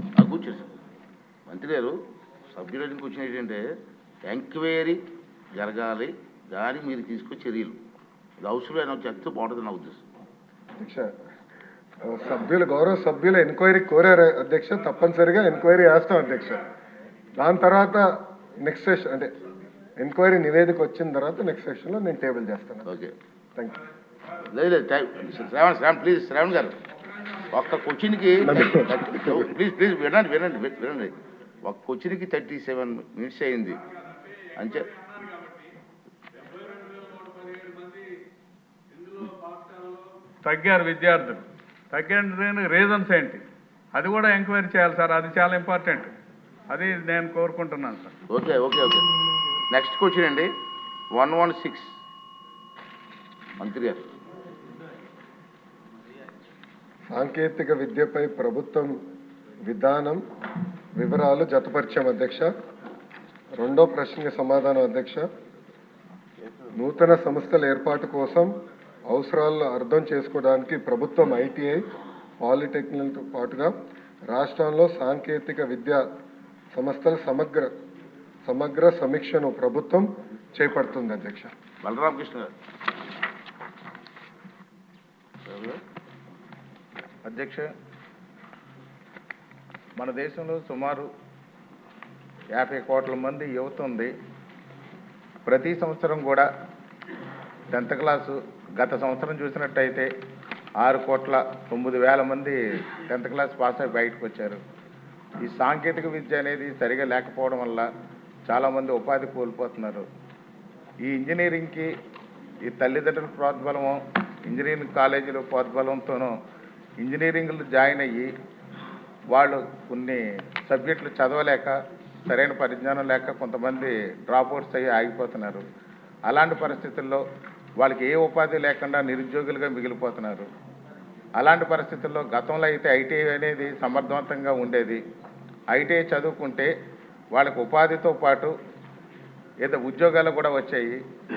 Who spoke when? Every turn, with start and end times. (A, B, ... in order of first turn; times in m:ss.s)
0:00.2-0:00.7 A
0:01.5-0:01.9 A
0:02.5-0:03.6 A
0:04.2-0:05.0 A
0:05.6-0:07.8 A
0:08.4-0:10.0 A
0:10.8-0:11.1 B
0:12.1-0:16.6 B
0:17.4-0:19.3 B
0:20.0-0:22.9 B
0:22.9-0:23.1 A
0:24.4-0:26.8 A
0:27.4-0:33.8 A
0:28.5-0:29.3 B
0:34.6-0:34.9 A
0:35.3-0:35.6 C
0:36.7-0:38.0 C
0:39.0-0:46.1 C
0:46.7-0:48.2 C
0:48.3-0:49.1 A
0:49.7-0:50.5 A
0:51.1-0:51.9 A
0:53.6-0:54.0 A
0:57.1-0:58.9 B
0:59.7-1:00.2 B
1:01.0-1:02.5 B
1:03.6-1:05.2 B
1:06.7-1:08.5 B
1:09.1-1:11.8 B
1:12.4-1:13.7 B
1:14.3-1:16.0 B
1:16.7-1:17.7 B
1:18.4-1:21.5 B
1:21.8-1:22.5 A
1:25.4-1:25.8 A
1:27.2-1:27.7 D
1:30.0-1:31.1 D
1:32.5-1:34.1 D
1:35.4-1:36.5 D
1:37.7-1:40.1 D
1:40.8-1:44.6 D
1:45.4-1:47.9 D
1:48.5-1:50.0 D
1:51.0-1:51.9 D
1:52.6-1:56.3 D
1:57.0-1:58.3 D
1:59.3-2:01.7 D
2:02.3-2:05.6 D
2:06.3-2:07.2 D
2:07.8-2:10.5 D
2:11.4-2:15.0 D
2:15.7-2:16.7 D
2:17.3-2:18.5 D
2:19.6-2:21.0 D